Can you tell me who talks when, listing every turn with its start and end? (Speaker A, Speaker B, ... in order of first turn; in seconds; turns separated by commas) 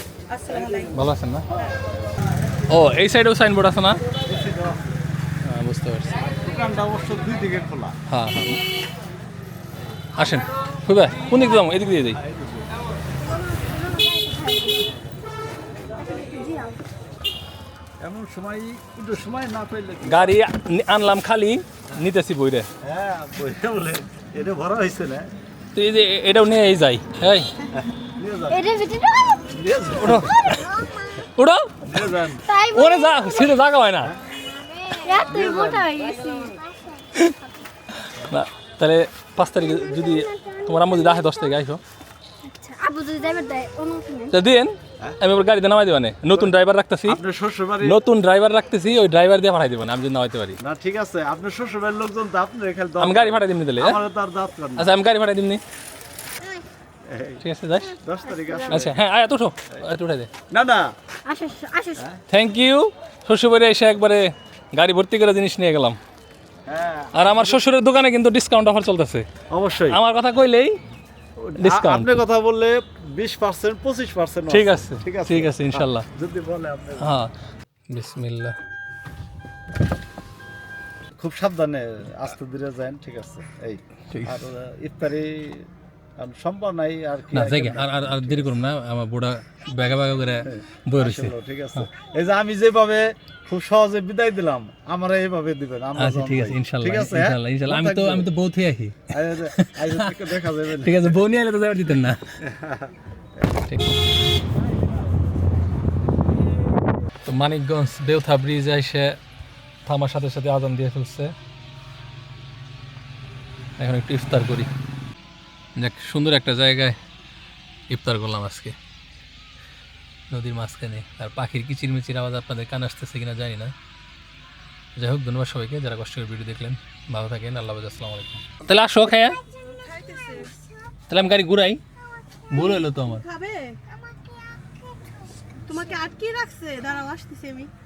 Speaker A: 0.3-0.9, Speaker B: 0.9-1.5, Speaker B: 2.7-4.0, Speaker C: 4.3-4.9, Speaker B: 5.4-6.2, Speaker C: 6.4-8.0, Speaker B: 8.1-8.6, Speaker B: 10.2-12.2, Speaker C: 12.2-12.7, Speaker D: 13.5-14.8, Speaker D: 16.0-16.7, Speaker C: 18.0-20.4, Speaker B: 20.1-22.7, Speaker C: 22.8-25.3, Speaker B: 25.7-27.5, Speaker C: 27.7-28.8, Speaker D: 28.5-29.5, Speaker C: 29.5-30.4, Speaker B: 30.0-30.7, Speaker D: 30.5-31.1, Speaker B: 31.2-31.7, Speaker C: 31.9-32.5, Speaker D: 32.4-33.5, Speaker B: 32.7-34.2, Speaker D: 34.5-37.1, Speaker C: 35.3-35.9, Speaker B: 38.0-41.8, Speaker D: 39.6-41.5, Speaker D: 42.5-44.3, Speaker B: 44.3-47.2, Speaker C: 47.1-48.0, Speaker B: 47.8-50.6, Speaker C: 50.6-54.9, Speaker B: 53.0-54.0, Speaker B: 54.8-55.6, Speaker C: 57.1-57.4, Speaker B: 57.4-58.0, Speaker C: 58.0-59.0, Speaker B: 58.7-60.3, Speaker C: 60.5-60.9, Speaker D: 61.3-62.0, Speaker B: 62.3-66.0, Speaker C: 66.7-67.6, Speaker B: 67.1-69.3, Speaker C: 69.5-70.0, Speaker B: 69.9-70.8, Speaker C: 71.4-77.1, Speaker B: 71.6-72.2, Speaker B: 74.5-76.1, Speaker B: 77.0-77.3, Speaker B: 77.9-78.5, Speaker C: 81.2-88.5, Speaker B: 84.1-84.5, Speaker B: 87.3-91.9, Speaker C: 90.5-98.3, Speaker B: 96.0-100.1, Speaker C: 99.1-101.2, Speaker B: 100.8-102.2, Speaker C: 102.4-102.9, Speaker B: 103.7-103.9, Speaker B: 107.2-109.2, Speaker B: 109.9-111.3, Speaker B: 113.8-114.7, Speaker B: 115.8-117.0, Speaker B: 117.9-118.8, Speaker B: 120.3-123.7, Speaker B: 125.0-129.4, Speaker D: 129.4-130.6, Speaker A: 129.9-130.5, Speaker B: 131.1-131.8, Speaker B: 132.5-133.2, Speaker A: 132.6-133.8, Speaker D: 133.9-134.8, Speaker A: 135.7-137.7